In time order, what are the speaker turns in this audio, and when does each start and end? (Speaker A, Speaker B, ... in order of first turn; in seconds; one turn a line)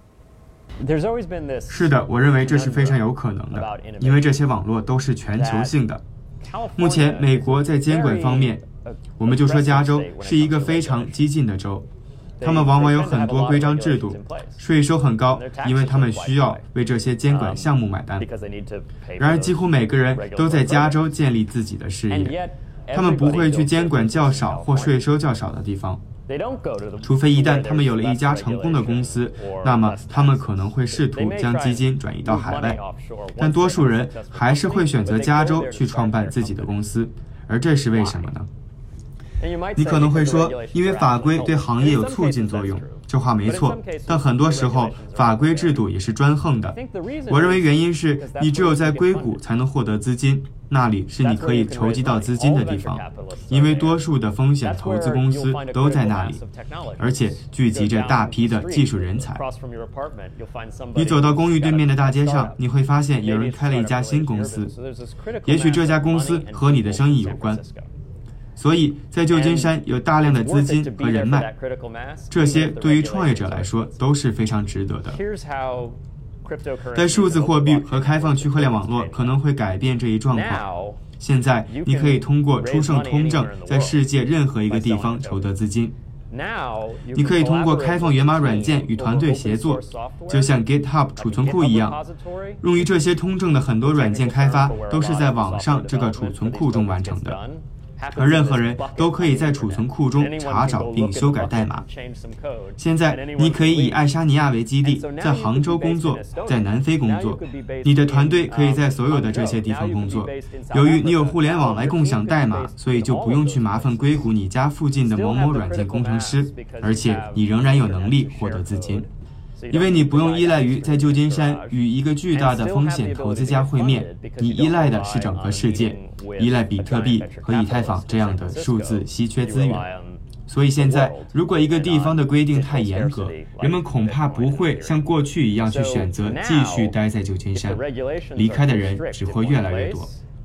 Speaker A: 0.8-4.4
Speaker B: 1.7-6.0
Speaker A: 5.3-5.8
Speaker A: 6.4-11.3
Speaker B: 6.8-8.6
Speaker B: 9.2-11.9
Speaker A: 12.4-14.6
Speaker B: 12.4-18.2
Speaker A: 15.3-16.6
Speaker A: 17.2-21.1
Speaker B: 19.2-22.3
Speaker A: 22.1-25.2
Speaker B: 22.9-26.0
Speaker A: 26.3-36.8
Speaker B: 27.0-32.8
Speaker B: 33.4-38.5
Speaker A: 37.9-38.3
Speaker A: 39.4-45.9
Speaker B: 39.8-46.8
Speaker A: 46.6-49.5
Speaker B: 47.3-56.4
Speaker A: 51.2-54.1
Speaker A: 54.6-67.9
Speaker B: 57.0-59.4
Speaker B: 60.9-64.7
Speaker B: 65.4-67.6
Speaker B: 68.6-71.5
Speaker A: 69.3-74.1
Speaker B: 72.3-75.2
Speaker A: 75.0-79.4
Speaker B: 76.9-80.6
Speaker A: 80.3-81.0
Speaker B: 81.2-85.9
Speaker A: 81.7-85.5
Speaker A: 86.3-92.6
Speaker B: 87.1-92.0
Speaker B: 92.6-97.4
Speaker A: 93.8-104.2
Speaker B: 98.1-101.8
Speaker B: 102.8-119.1
Speaker A: 104.8-114.3
Speaker A: 115.0-137.0
Speaker B: 119.7-129.8
Speaker B: 130.5-137.8
Speaker A: 137.5-140.2
Speaker B: 138.3-140.1